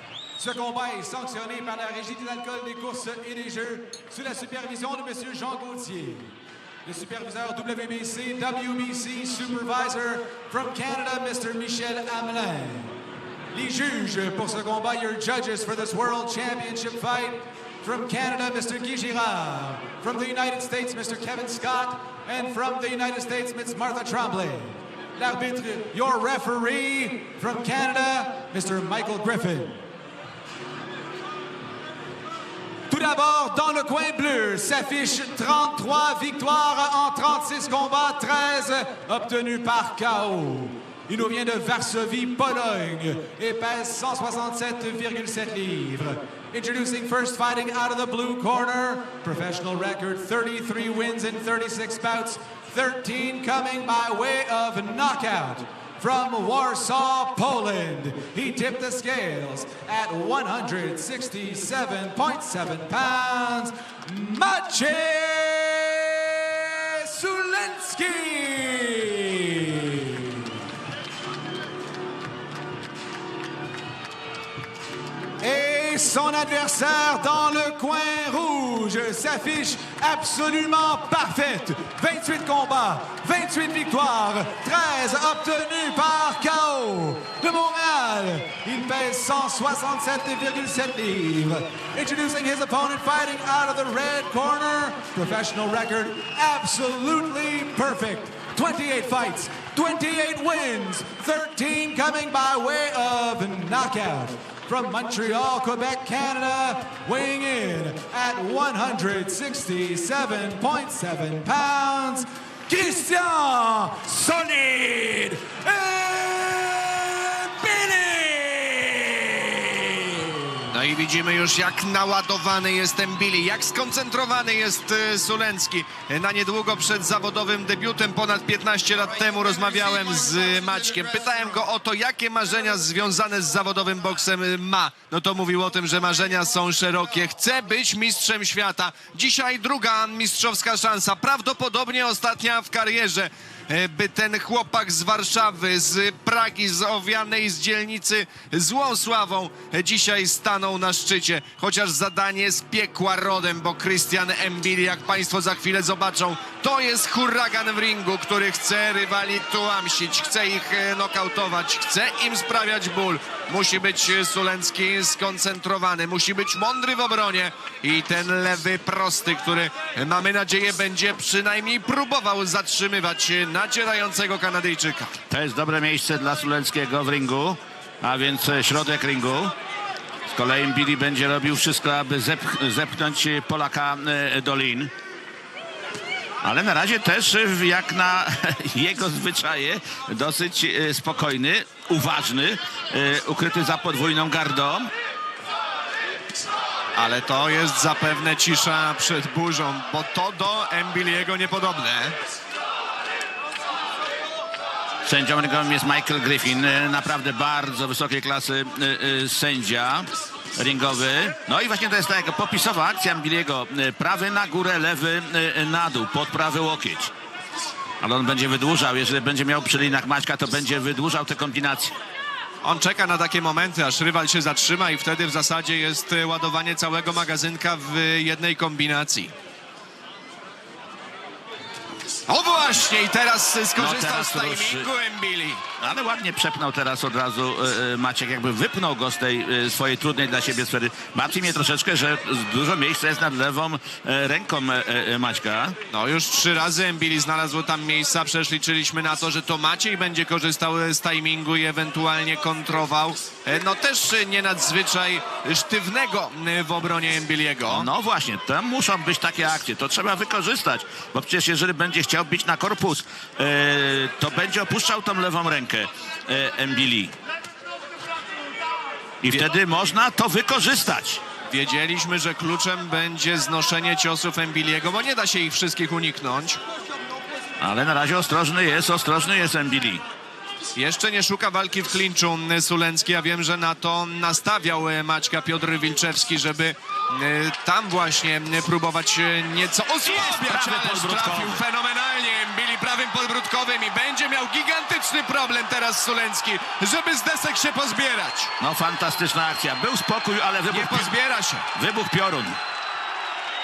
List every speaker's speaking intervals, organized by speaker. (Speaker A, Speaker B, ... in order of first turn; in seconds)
Speaker A: 0.4-6.3, 6.8-12.9, 13.5-29.8, 32.9-70.5, 75.4-120.6
Speaker B: 120.7-175.1, 196.9-202.2, 222.6-229.3, 232.3-235.6, 245.9-257.9, 271.5-276.6, 280.8-298.5, 300.7-301.7
Speaker C: 175.3-179.5, 180.3-184.9, 186.4-194.9, 205.1-217.1, 218.0-221.9, 233.8-234.9, 235.8-245.8, 257.7-267.1, 269.2-271.2, 277.6-280.0, 290.1-291.6, 298.6-301.1, 301.8-302.6